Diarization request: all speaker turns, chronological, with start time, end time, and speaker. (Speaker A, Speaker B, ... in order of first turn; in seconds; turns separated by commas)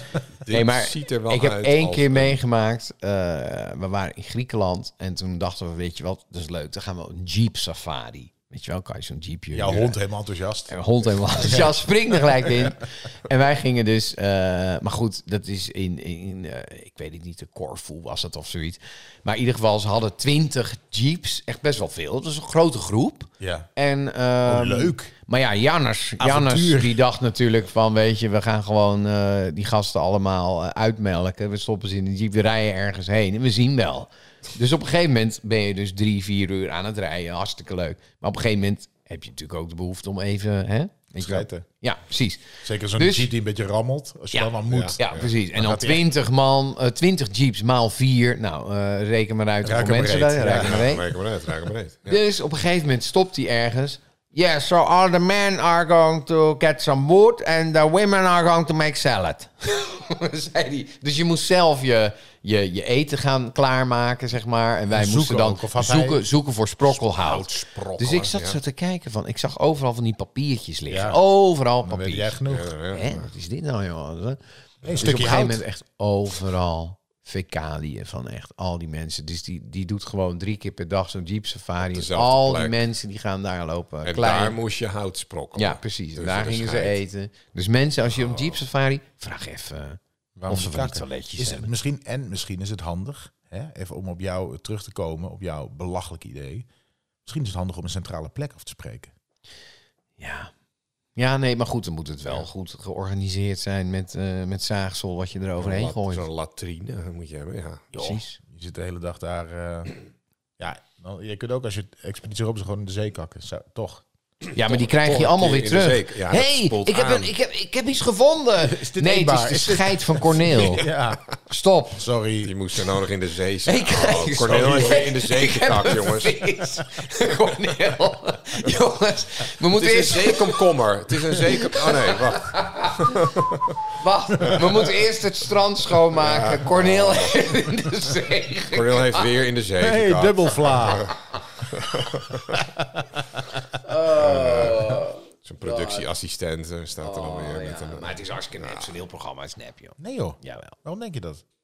Speaker A: 0.4-2.4, Speaker B: 0.5-9.9, Speaker C: 9.5-10.8, Speaker B: 10.7-43.3, Speaker C: 11.3-11.7, Speaker C: 23.4-23.7, Speaker C: 24.4-25.1, Speaker C: 26.2-27.0, Speaker C: 41.2-41.6, Speaker C: 42.6-45.0, Speaker B: 44.3-51.0, Speaker A: 44.7-45.3, Speaker C: 45.5-46.0, Speaker C: 49.6-50.9, Speaker A: 50.5-52.2, Speaker B: 52.1-72.3, Speaker C: 64.9-66.2, Speaker A: 67.0-68.6, Speaker C: 70.9-71.2, Speaker C: 71.8-72.7, Speaker A: 72.5-73.3, Speaker B: 72.9-84.6, Speaker C: 74.8-75.6, Speaker A: 81.9-82.8, Speaker A: 84.0-87.0, Speaker B: 85.5-91.7, Speaker C: 90.3-96.7, Speaker C: 97.2-99.1, Speaker B: 100.2-100.5, Speaker B: 101.2-106.2, Speaker A: 105.6-108.2, Speaker B: 107.9-108.4, Speaker C: 108.4-109.9, Speaker C: 110.6-114.0, Speaker B: 114.5-120.9, Speaker A: 114.6-117.3, Speaker C: 118.6-121.2, Speaker B: 121.5-122.0, Speaker C: 122.0-122.5, Speaker A: 122.4-126.6, Speaker B: 123.7-130.6, Speaker A: 129.7-133.8, Speaker B: 131.4-133.2, Speaker B: 134.0-139.2, Speaker A: 136.2-137.3, Speaker A: 138.7-142.6, Speaker C: 139.8-141.1, Speaker C: 142.5-143.0, Speaker B: 143.8-146.1, Speaker A: 144.1-148.9, Speaker B: 147.0-150.8, Speaker C: 150.0-151.4